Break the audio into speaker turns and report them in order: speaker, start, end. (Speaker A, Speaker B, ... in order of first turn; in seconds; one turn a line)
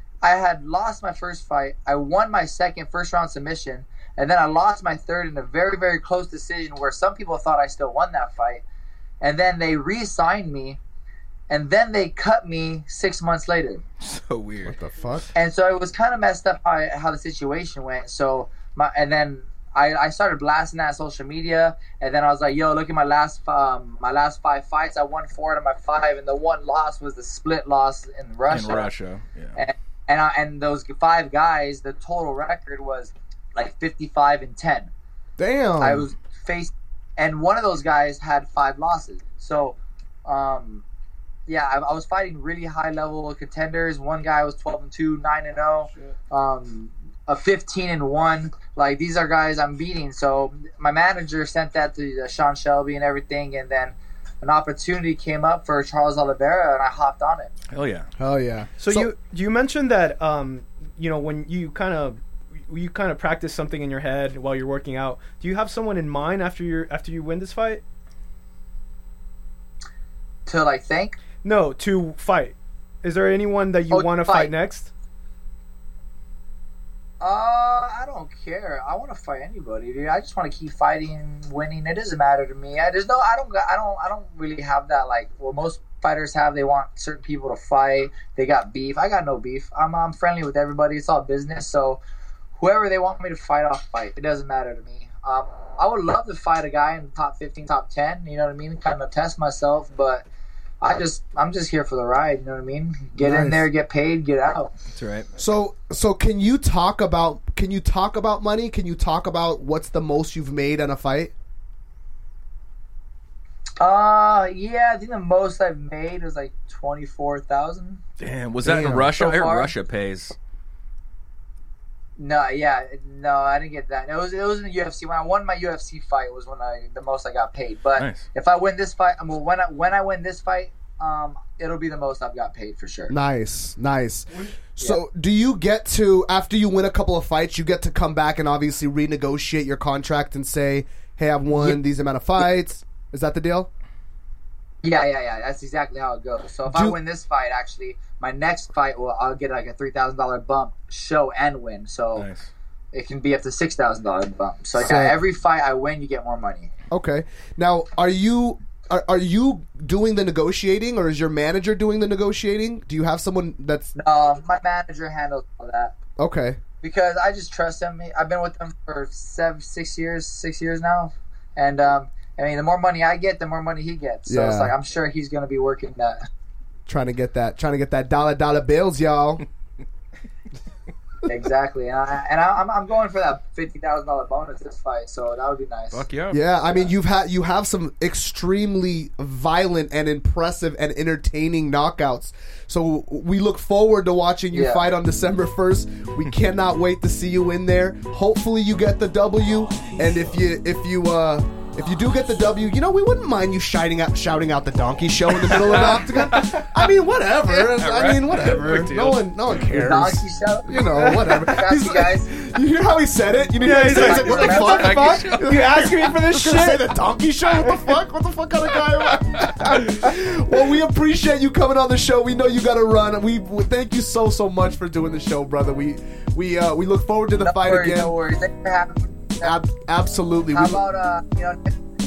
Speaker A: 0.2-8.6
Speaker A: 9.2-10.8
Speaker A: 11.5-13.8
Speaker B: 14.0-14.8
Speaker C: 14.6-15.3
Speaker A: 15.3-28.9
Speaker B: 28.5-29.6
Speaker A: 29.5-34.9
Speaker C: 35.4-36.1
Speaker A: 35.8-40.8
Speaker A: 41.5-57.5
Speaker B: 57.7-58.1
Speaker C: 58.2-59.1
Speaker D: 58.8-67.8
Speaker A: 70.5-71.2
Speaker D: 71.4-74.9
Speaker A: 73.9-74.5
Speaker A: 77.2-92.0
Speaker A: 92.6-100.2
Speaker A: 100.8-104.7
Speaker C: 103.2-103.6
Speaker B: 105.0-105.3
Speaker C: 105.4-111.3
Speaker A: 113.8-118.0
Speaker B: 118.2-120.3
Speaker C: 118.6-119.1
Speaker A: 119.1-119.7
Speaker A: 122.2-133.1
Speaker B: 128.0-128.2
Speaker C: 133.1-143.7
Speaker A: 144.8-152.3
Speaker C: 146.7-147.0
Speaker B: 152.2-152.5
Speaker A: 152.9-156.7
Speaker C: 154.7-155.2
Speaker C: 156.9-163.9
Speaker A: 163.9-165.9
Speaker C: 166.2-166.6
Speaker A: 166.8-176.2
Speaker C: 174.3-174.7
Speaker C: 176.9-179.4
Speaker A: 181.2-186.0
Speaker B: 185.9-186.4
Speaker C: 186.3-228.1
Speaker A: 194.5-194.8
Speaker B: 205.4-206.8
Speaker B: 207.5-209.2
Speaker A: 209.7-212.3
Speaker D: 210.9-211.4
Speaker D: 213.6-216.9
Speaker A: 213.8-215.1
Speaker B: 214.3-215.9
Speaker B: 219.4-219.8
Speaker A: 227.4-229.6
Speaker C: 229.4-230.8
Speaker A: 230.5-231.7